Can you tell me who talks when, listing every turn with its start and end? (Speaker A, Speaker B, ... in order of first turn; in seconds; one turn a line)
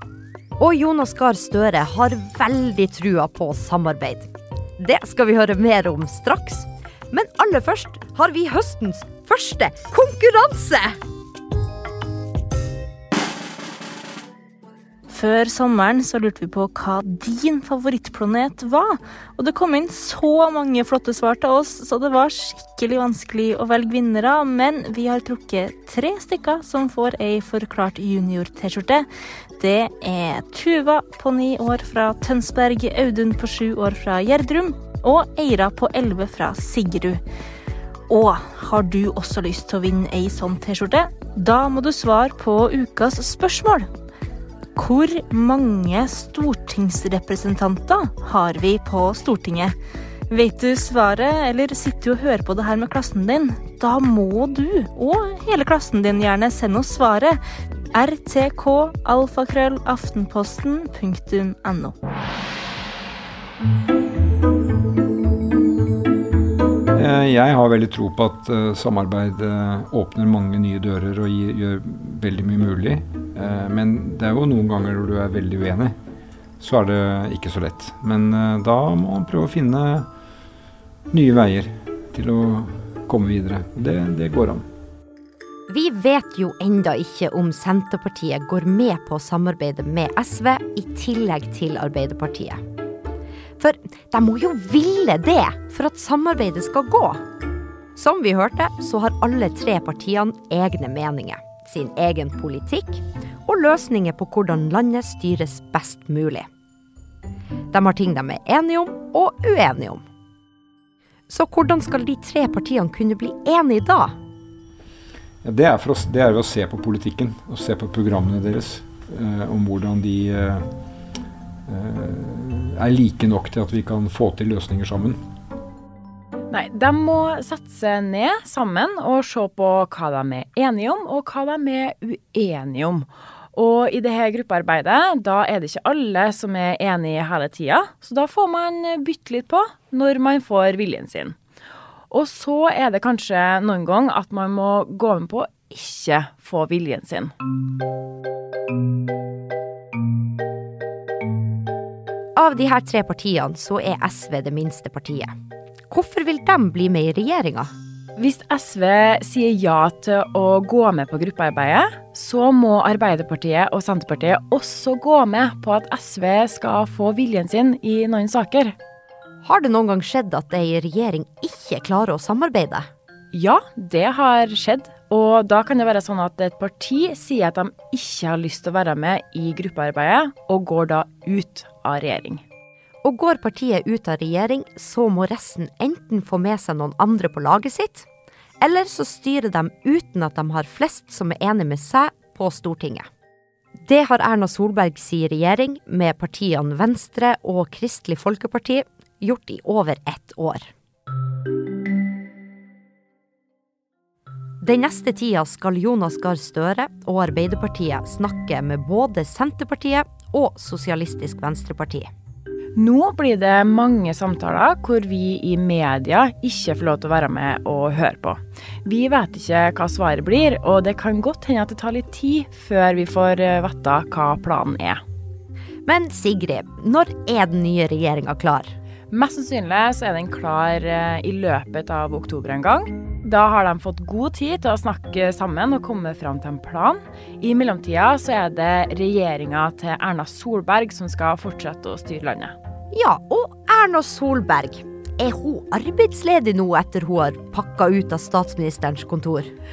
Speaker A: 0.6-10.9
Speaker B: 15.1-37.2
Speaker B: 38.1-43.9
Speaker B: 44.8-49.7
Speaker B: 50.3-57.4
Speaker B: 57.9-61.9
Speaker C: 66.9-75.9
Speaker C: 76.6-80.1
Speaker C: 81.1-84.7
Speaker A: 85.7-92.6
Speaker A: 93.6-97.2
Speaker A: 98.0-106.5
Speaker A: 107.7-110.0
Speaker A: 111.3-114.1
Speaker C: 115.4-120.6
Speaker C: 121.7-125.2
Speaker D: 126.5-141.4
Speaker D: 142.1-147.3
Speaker A: 152.3-155.3
Speaker A: 155.9-157.7
Speaker D: 158.2-168.8
Speaker A: 169.4-172.9
Speaker D: 173.3-182.4
Speaker A: 183.0-188.1
Speaker A: 188.6-193.1
Speaker A: 193.8-200.7
Speaker A: 204.6-212.1
Speaker D: 212.8-225.0
Speaker A: 225.8-228.7
Speaker D: 229.1-242.5
Speaker A: 242.9-249.5